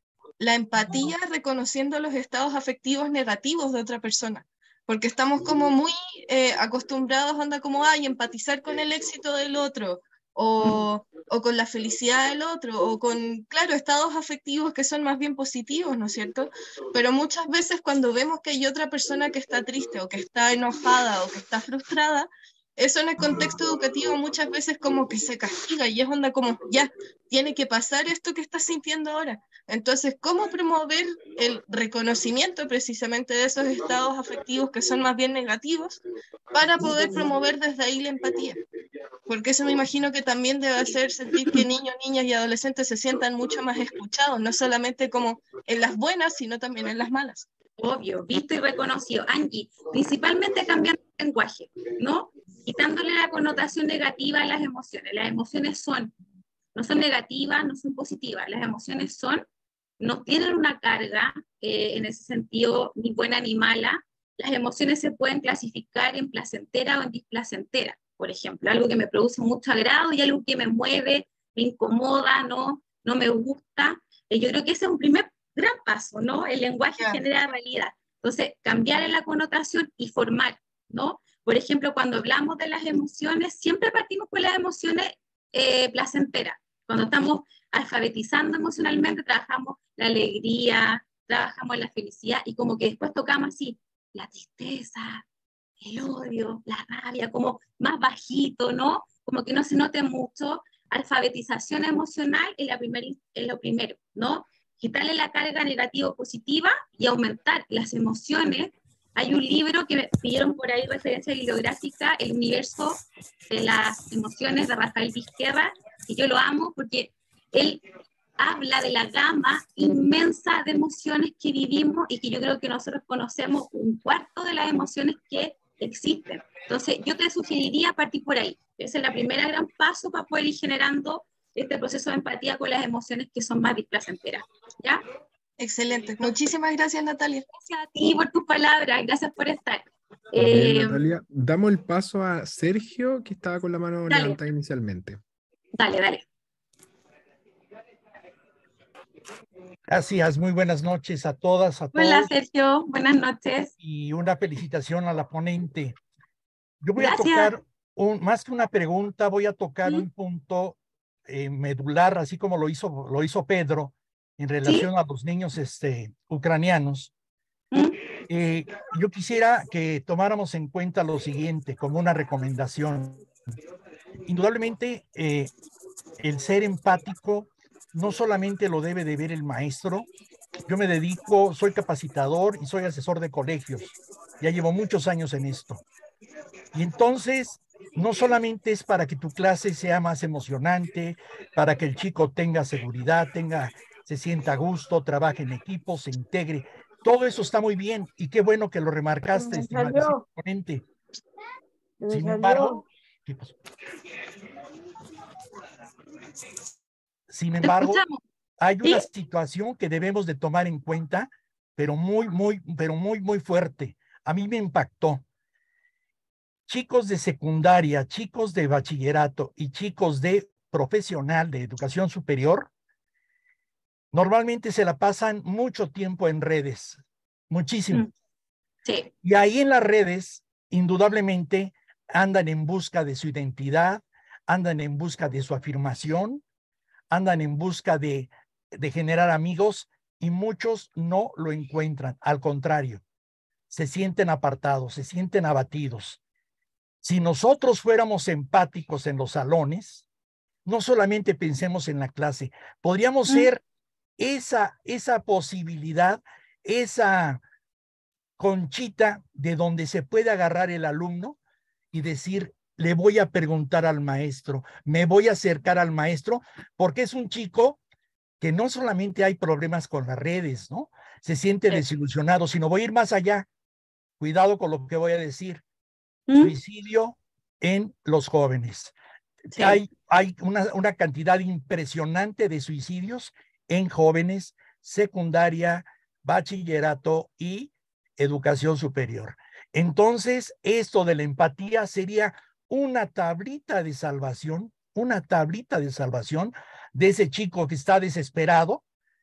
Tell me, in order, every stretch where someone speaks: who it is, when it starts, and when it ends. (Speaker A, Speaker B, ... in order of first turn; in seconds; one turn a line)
Speaker A: 0.4-38.6
Speaker A: 39.3-47.5
Speaker B: 47.8-56.1
Speaker B: 56.7-59.5
Speaker B: 60.0-95.2
Speaker B: 95.8-117.8
Speaker B: 118.4-135.0
Speaker A: 135.6-137.4
Speaker B: 137.5-141.1
Speaker C: 140.3-145.2
Speaker B: 144.1-144.4
Speaker B: 145.7-146.2
Speaker D: 149.9-152.3
Speaker B: 151.9-153.7
Speaker D: 153.8-156.0
Speaker D: 156.8-167.1
Speaker B: 157.0-157.5
Speaker B: 167.7-168.0
Speaker D: 168.3-173.2
Speaker D: 174.2-175.5
Speaker D: 176.2-180.1
Speaker D: 180.7-185.8
Speaker D: 186.7-200.8
Speaker D: 202.1-203.5
Speaker D: 207.3-208.0
Speaker B: 207.6-208.2
Speaker D: 208.6-215.2
Speaker D: 216.7-222.7
Speaker D: 224.1-228.1
Speaker B: 228.8-229.1
Speaker D: 229.2-236.4
Speaker D: 237.1-243.0
Speaker D: 243.7-246.2
Speaker D: 247.0-250.1
Speaker D: 250.7-253.6
Speaker D: 254.2-257.4
Speaker D: 258.4-261.4
Speaker D: 261.9-267.8
Speaker D: 268.4-273.5
Speaker D: 274.2-275.6
Speaker B: 276.3-276.5
Speaker D: 276.4-278.9
Speaker D: 279.5-298.8